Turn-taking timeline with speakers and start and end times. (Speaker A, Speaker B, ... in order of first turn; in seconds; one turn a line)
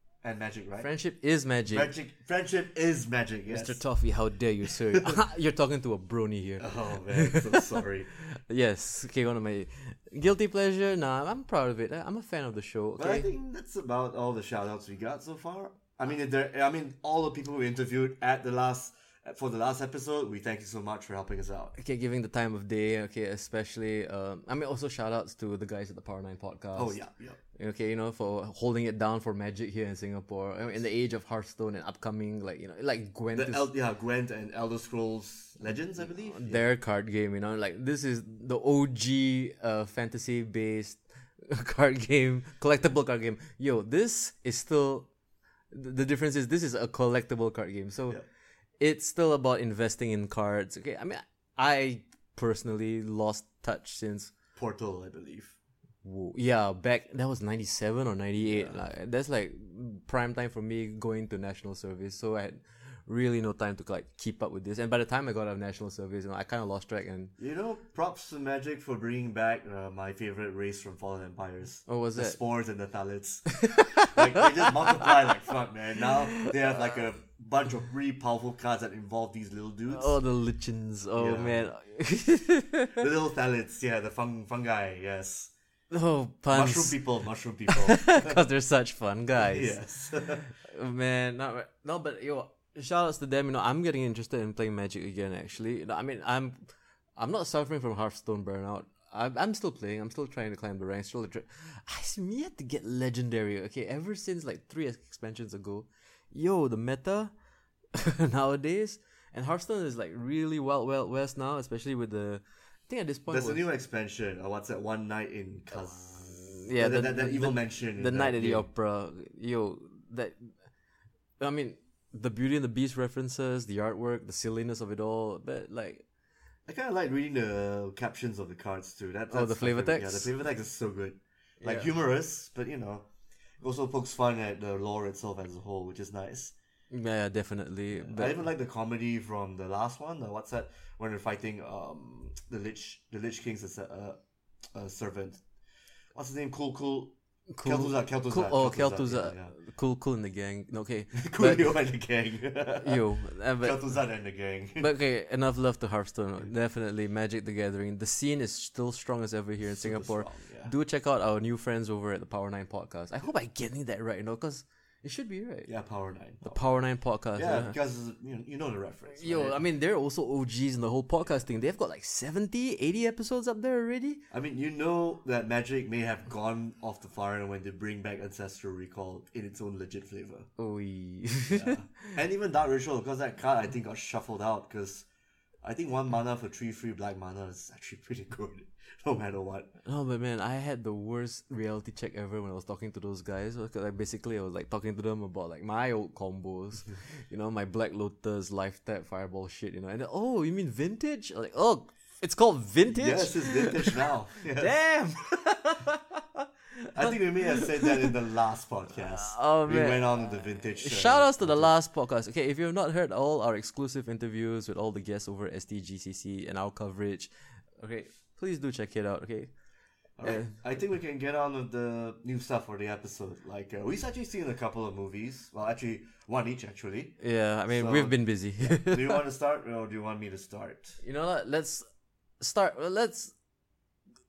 Speaker A: 0.2-0.9
Speaker B: 0.8-1.9
Speaker A: 1.7-3.8
Speaker B: 3.5-13.3
Speaker A: 4.8-5.2
Speaker A: 6.6-8.1
Speaker A: 13.0-21.8
Speaker B: 21.8-27.0
Speaker A: 26.8-27.4
Speaker B: 27.6-33.7
Speaker A: 33.4-36.7
Speaker B: 36.3-45.1
Speaker B: 45.7-48.2
Speaker B: 48.8-54.3
Speaker A: 54.6-55.6
Speaker B: 56.0-67.3
Speaker A: 58.4-58.8
Speaker A: 67.4-80.2
Speaker B: 71.9-72.4
Speaker B: 73.6-74.8
Speaker B: 79.9-83.0
Speaker A: 81.2-81.7
Speaker A: 83.0-85.5
Speaker B: 85.9-87.0
Speaker A: 86.5-88.4
Speaker B: 87.7-89.8
Speaker A: 89.4-90.5
Speaker B: 90.4-96.6
Speaker B: 97.2-107.3
Speaker B: 107.9-113.6
Speaker A: 113.3-118.7
Speaker B: 116.0-120.5
Speaker B: 121.4-126.0
Speaker A: 126.7-133.1
Speaker B: 129.3-130.3
Speaker B: 131.6-131.9
Speaker A: 133.6-136.5
Speaker B: 136.9-138.5
Speaker A: 138.0-144.2
Speaker A: 144.7-145.4
Speaker A: 146.2-149.5
Speaker B: 147.5-151.8
Speaker A: 151.1-153.0
Speaker B: 152.8-153.8
Speaker A: 153.6-154.9
Speaker B: 154.8-165.7
Speaker A: 159.7-160.7
Speaker A: 165.7-166.7
Speaker B: 166.4-167.8
Speaker A: 167.3-169.6
Speaker B: 169.1-174.2
Speaker A: 174.3-180.5
Speaker B: 180.6-182.2
Speaker A: 181.5-185.1
Speaker A: 185.6-189.7
Speaker B: 189.9-204.0
Speaker A: 202.9-204.7
Speaker B: 204.6-208.1
Speaker A: 206.9-211.7
Speaker B: 209.0-210.2
Speaker B: 210.8-219.5
Speaker A: 220.2-227.2
Speaker B: 220.2-220.6
Speaker B: 227.2-229.2
Speaker A: 227.7-231.0
Speaker B: 231.0-231.9
Speaker B: 232.4-233.3